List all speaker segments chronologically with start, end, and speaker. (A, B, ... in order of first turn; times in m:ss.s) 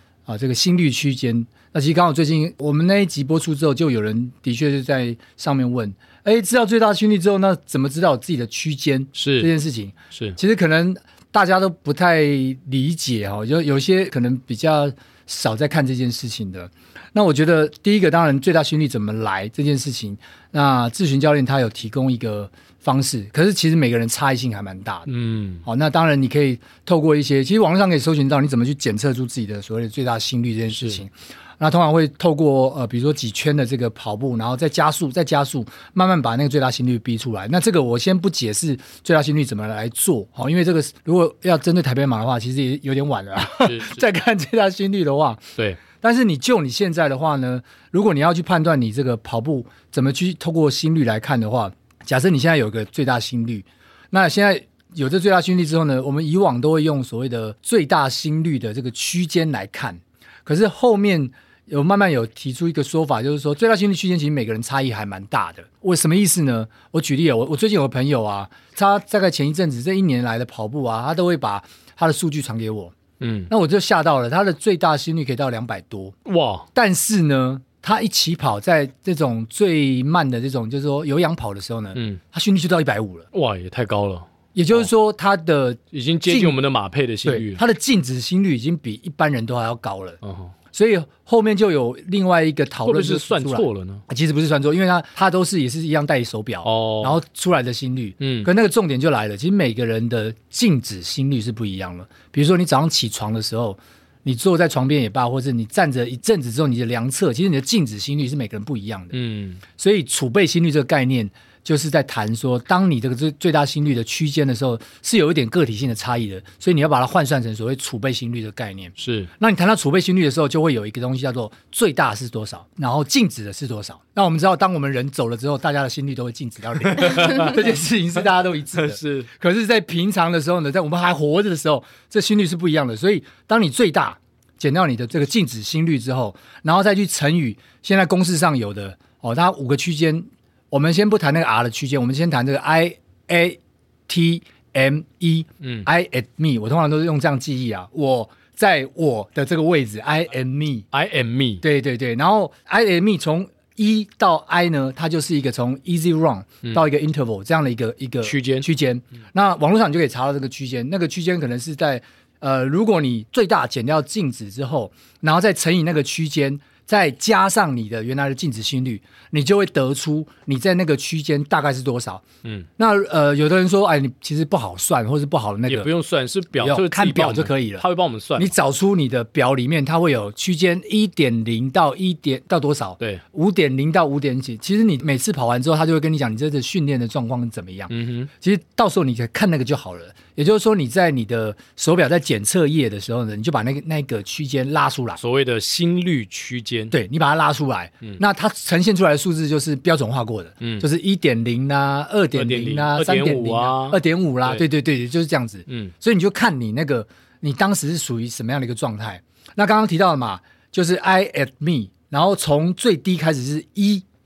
0:00.3-0:25.1 A
0:09.2-0:09.5 B
0:10.1-0:10.4 B
0:25.1-0:25.6 B
0:25.6-1:12.9 A
0:30.7-0:31.0 B
0:43.6-0:44.0 B
1:13.2-1:13.5 B
1:13.5-1:16.2 A
1:16.2-1:16.7 B
1:16.7-1:23.3 A
1:22.0-1:22.2 B
1:23.3-1:24.9 B
1:24.5-1:26.6 A
1:25.9-1:27.6 B
1:27.2-1:30.2 A
1:30.2-1:30.5 B
1:30.7-1:49.2 A
1:32.8-1:34.0 B
1:36.6-1:37.2 B
1:38.2-1:38.5 B
1:49.1-1:49.6 B
1:49.7-2:30.9 A
1:59.0-1:59.3 B
2:06.9-2:07.6 B
2:08.7-2:09.3 B
2:25.6-2:25.9 B
2:30.9-2:31.6 B
2:31.6-2:52.2 A
2:38.2-2:38.7 B
2:52.8-2:55.9 A
2:55.7-2:58.5 B
2:56.5-2:57.8 A
2:58.4-3:15.2 A
3:07.9-3:08.3 B
3:15.2-3:17.0 B
3:16.9-3:34.0 A
3:20.6-3:20.8 B
3:22.3-3:24.7 B
3:25.7-3:25.9 B